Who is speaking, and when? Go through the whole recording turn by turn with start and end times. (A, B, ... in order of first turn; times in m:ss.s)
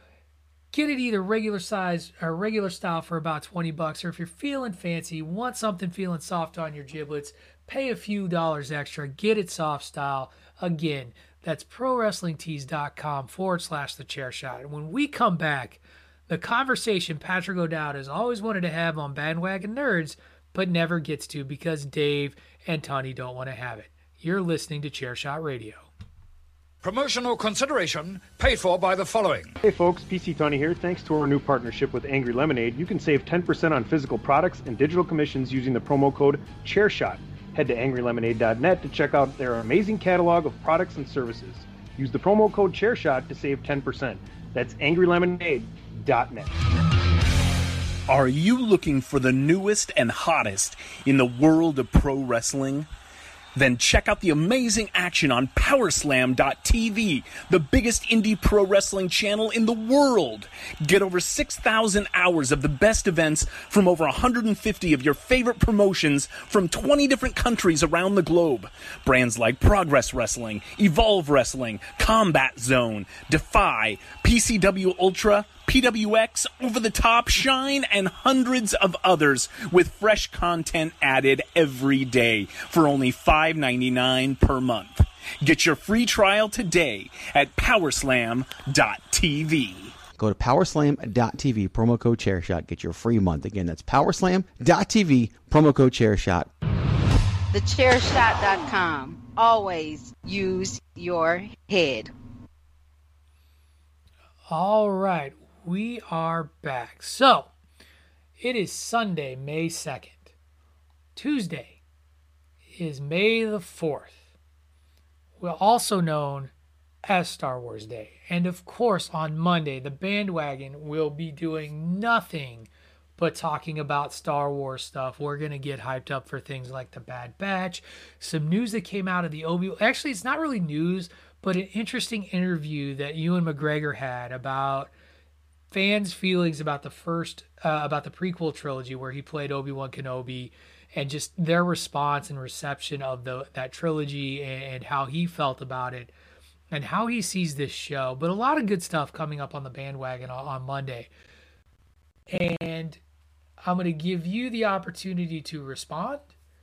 0:00.7-0:25.9 A
0:26.8-0:29.6 B
0:29.6-0:46.5 C
0:48.1-0:52.9 D
0:53.6-1:30.0 D
1:30.2-1:36.5 E
1:37.5-1:42.1 F
1:44.5-1:47.5 A
1:48.4-1:50.3 A
1:51.2-1:51.8 A
1:52.7-1:54.2 A
1:55.4-1:56.5 A
1:57.1-2:14.9 A
2:15.7-2:26.1 A
2:26.7-2:31.1 A
2:32.3-2:33.0 A
2:33.6-2:36.3 A